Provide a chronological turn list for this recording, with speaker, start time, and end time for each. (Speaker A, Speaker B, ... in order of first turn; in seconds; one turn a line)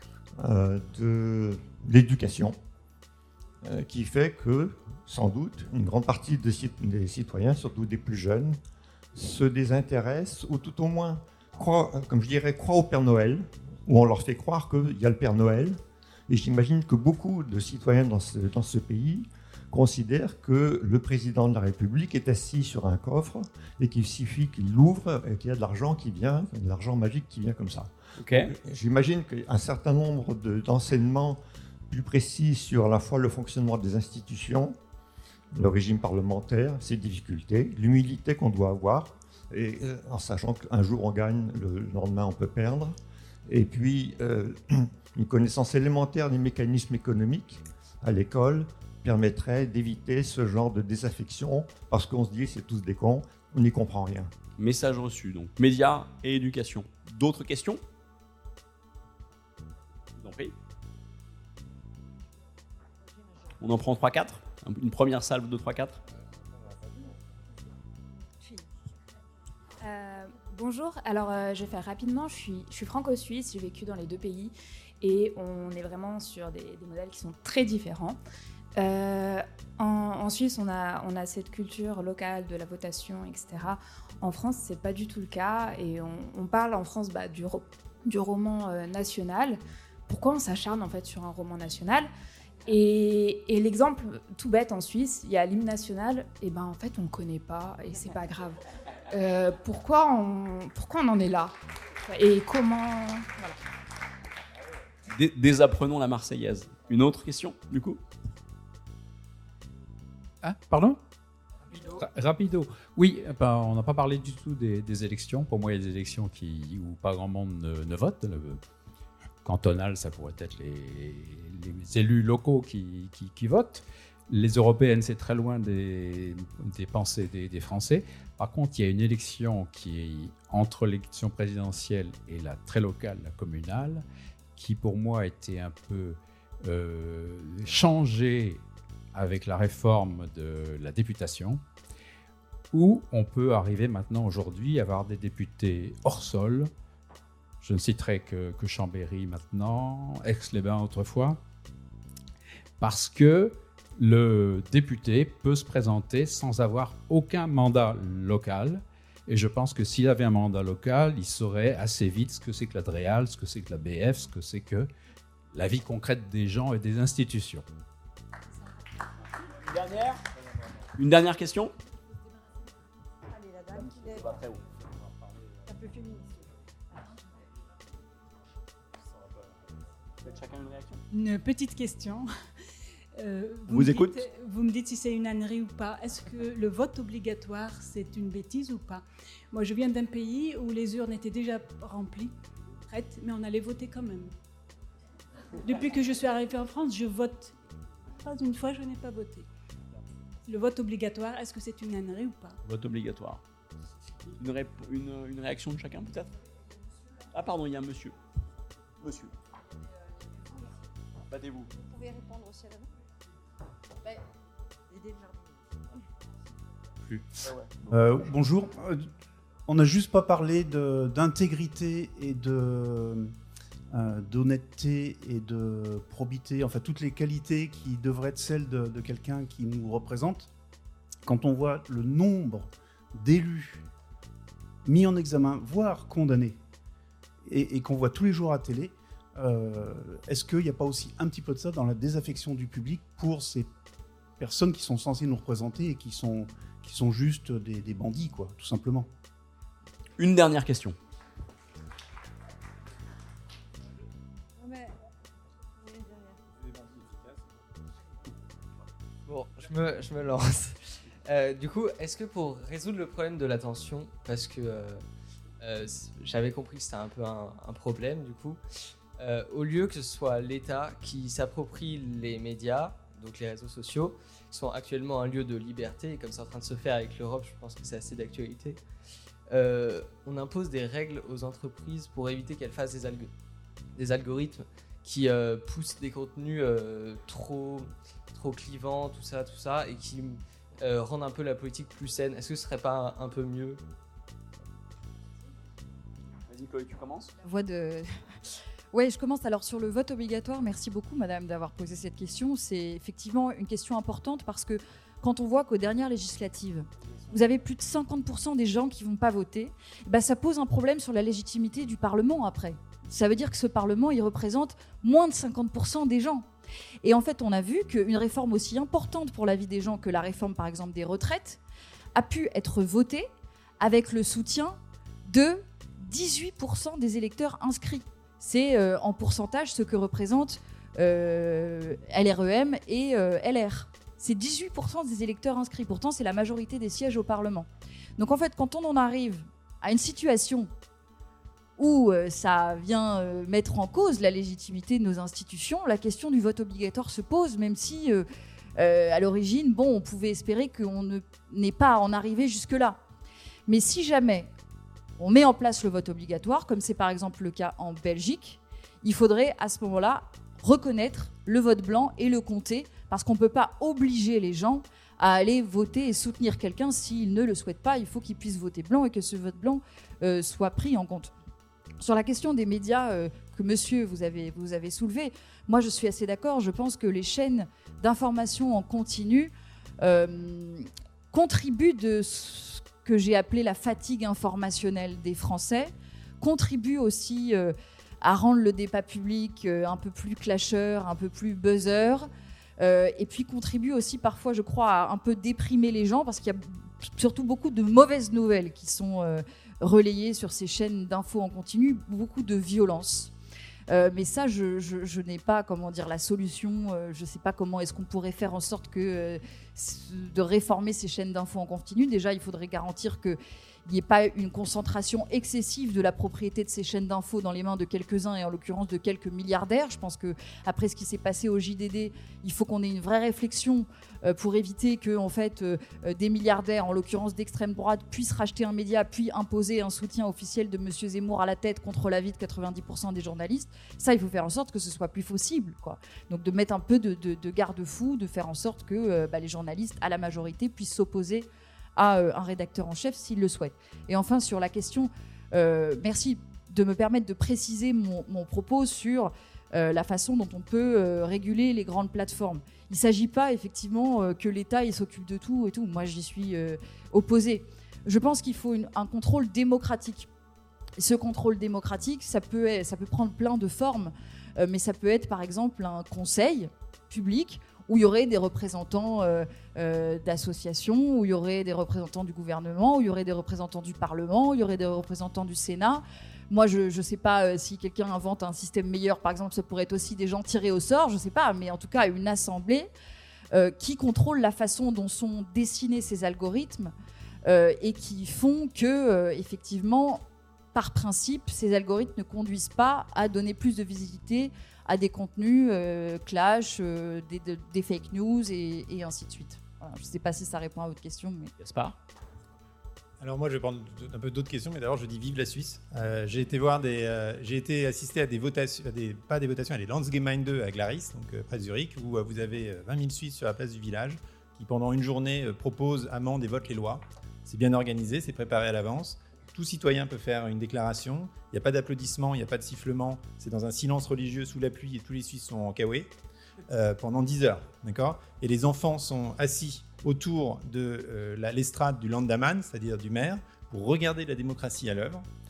Speaker A: 0.4-2.6
Speaker A: 3.6-8.6
Speaker A: 9.2-34.8
Speaker A: 35.5-43.0
Speaker A: 43.5-54.3
Speaker B: 54.6-57.8
Speaker B: 60.2-60.5
Speaker B: 63.6-66.0
Speaker C: 69.8-78.2
Speaker C: 78.8-92.1
Speaker C: 92.7-101.5
Speaker C: 102.1-103.6
Speaker B: 105.1-108.0
Speaker D: 110.4-111.0
Speaker D: 111.8-118.6
Speaker D: 119.4-138.6
Speaker D: 139.1-141.6
Speaker D: 142.7-146.7
Speaker D: 147.6-151.4
Speaker D: 152.8-164.9
Speaker D: 165.5-167.7
Speaker B: 169.6-170.2
Speaker B: 171.0-171.7
Speaker E: 173.3-174.3
Speaker B: 173.7-174.6
Speaker E: 175.7-177.1
Speaker B: 180.2-181.0
Speaker F: 181.1-182.3
Speaker F: 183.2-192.3
Speaker B: 183.7-184.2
Speaker F: 192.9-194.3
Speaker F: 195.6-197.6
Speaker F: 198.2-199.5
Speaker F: 200.5-202.6
Speaker B: 202.7-203.4
Speaker B: 204.4-206.3
Speaker B: 207.3-208.1
Speaker B: 209.0-209.3
Speaker B: 211.3-211.7
Speaker E: 211.9-212.9
Speaker E: 214.9-215.6
Speaker G: 217.9-219.1
Speaker G: 219.7-223.3
Speaker G: 223.9-230.5
Speaker G: 231.2-233.8
Speaker G: 234.8-236.6
Speaker G: 237.4-243.7
Speaker G: 244.4-249.1
Speaker B: 250.2-251.0
Speaker E: 254.6-254.9
Speaker E: 255.8-256.4
Speaker H: 259.3-265.0
Speaker H: 265.6-268.6
Speaker H: 269.2-278.8
Speaker H: 279.5-283.3
Speaker H: 284.0-293.8
Speaker B: 296.5-297.3
Speaker I: 297.4-298.1
Speaker I: 298.9-316.5
Speaker I: 317.0-321.6
Speaker I: 322.1-323.3
Speaker I: 323.8-337.7
Speaker I: 338.2-340.7
Speaker I: 341.8-353.0
Speaker I: 353.7-354.5
Speaker I: 355.2-371.3
Speaker I: 372.0-392.3
Speaker I: 392.8-403.3
Speaker I: 403.9-460.3
Speaker I: 461.0-482.9
Speaker I: 483.5-486.9
Speaker I: 487.4-490.2
Speaker I: 490.7-501.5
Speaker B: 501.6-502.0
Speaker J: 503.2-526.1
Speaker J: 526.7-535.3